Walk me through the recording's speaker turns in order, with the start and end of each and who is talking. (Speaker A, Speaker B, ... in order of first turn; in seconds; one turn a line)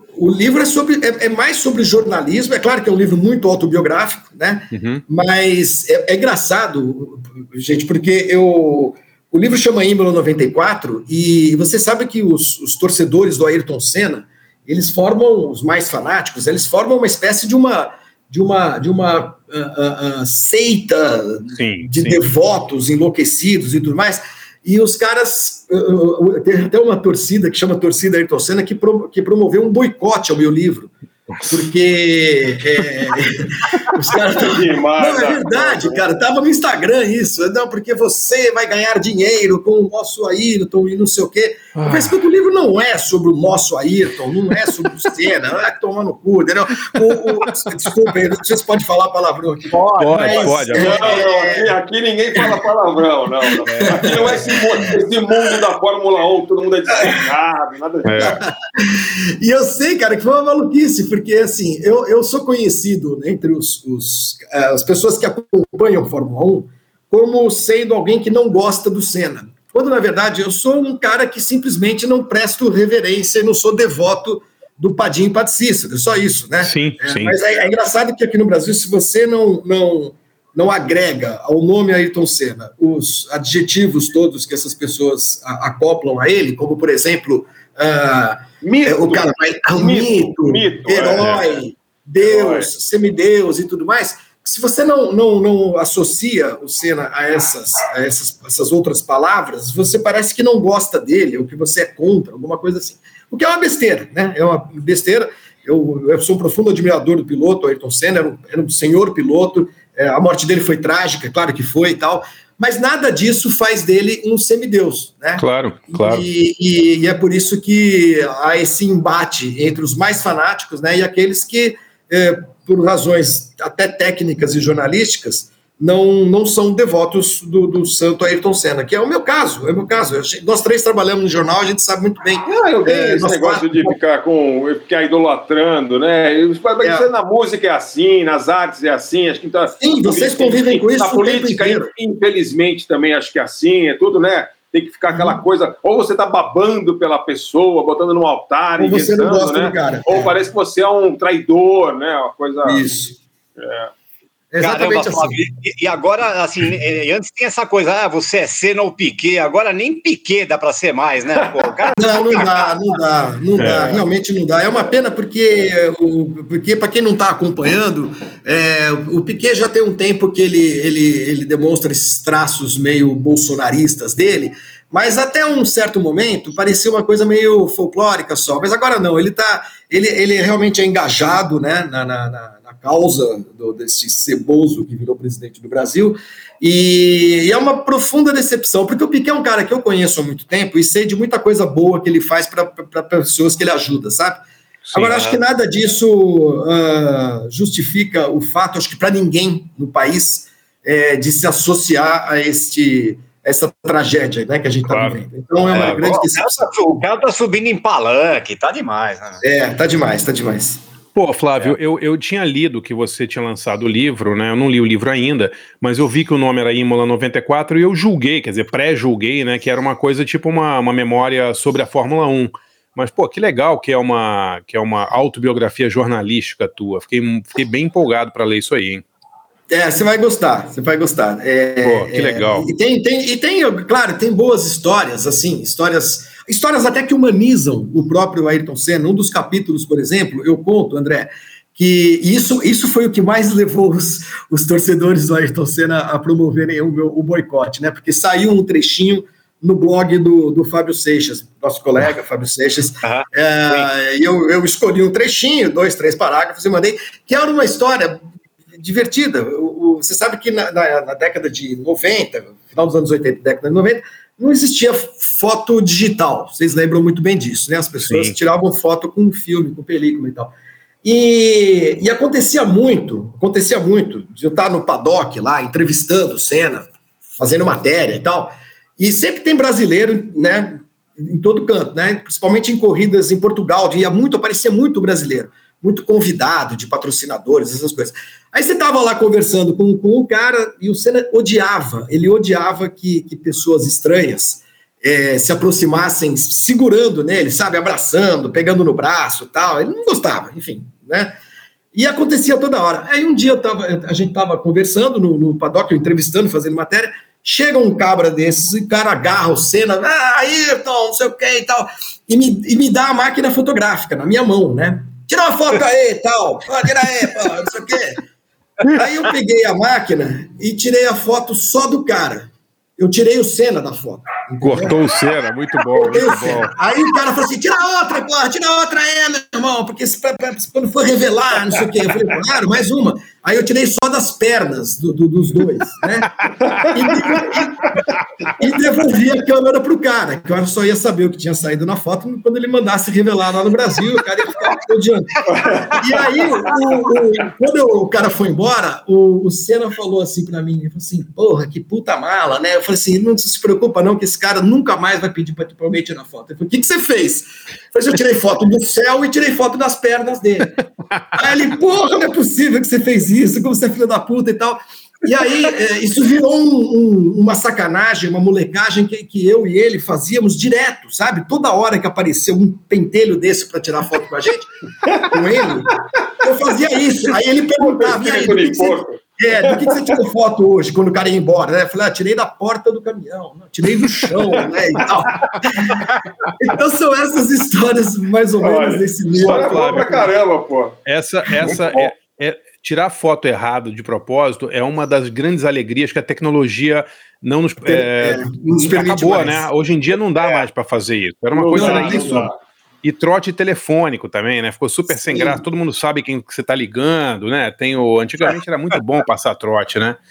Speaker A: 0.1-30.9
Speaker B: 4.7-5.0
Speaker B: 21.5-22.2
Speaker A: 31.4-51.7
Speaker C: 34.4-36.0
Speaker B: 41.8-42.1
Speaker B: 49.9-51.2
Speaker C: 50.2-58.3
Speaker A: 53.6-55.0
Speaker A: 56.9-57.2
Speaker B: 58.0-58.4
Speaker A: 58.1-133.9
Speaker B: 76.6-77.3
Speaker C: 88.6-91.4
Speaker C: 92.2-92.7
Speaker B: 115.4-116.2
Speaker C: 132.5-152.8
Speaker A: 139.8-141.9
Speaker A: 145.1-145.4
Speaker A: 148.8-150.3
Speaker A: 152.6-153.2
Speaker C: 153.6-153.9
Speaker A: 154.5-155.5
Speaker D: 154.6-162.7
Speaker A: 162.0-194.4
Speaker B: 163.6-164.0
Speaker B: 194.9-195.4
Speaker A: 194.9-206.7
Speaker B: 204.9-205.2
Speaker D: 205.7-209.4
Speaker A: 209.4-210.8
Speaker B: 211.1-229.0
Speaker A: 229.7-258.2
Speaker B: 231.8-232.7
Speaker D: 253.0-253.9
Speaker A: 258.7-301.4
Speaker B: 268.0-268.4
Speaker A: 301.9-318.2
Speaker A: 318.9-325.1
Speaker B: 324.6-326.8
Speaker A: 325.9-338.0
Speaker C: 336.6-337.3
Speaker A: 338.6-386.0
Speaker C: 345.4-347.0
Speaker C: 375.0-375.4
Speaker C: 377.8-380.2
Speaker C: 384.5-385.0
Speaker A: 386.6-390.3
Speaker C: 388.6-390.9
Speaker B: 389.4-390.3
Speaker B: 391.1-402.4
Speaker C: 391.6-392.1
Speaker A: 397.9-399.7
Speaker C: 401.5-402.6
Speaker A: 401.7-402.5
Speaker B: 403.0-410.2
Speaker A: 405.1-405.6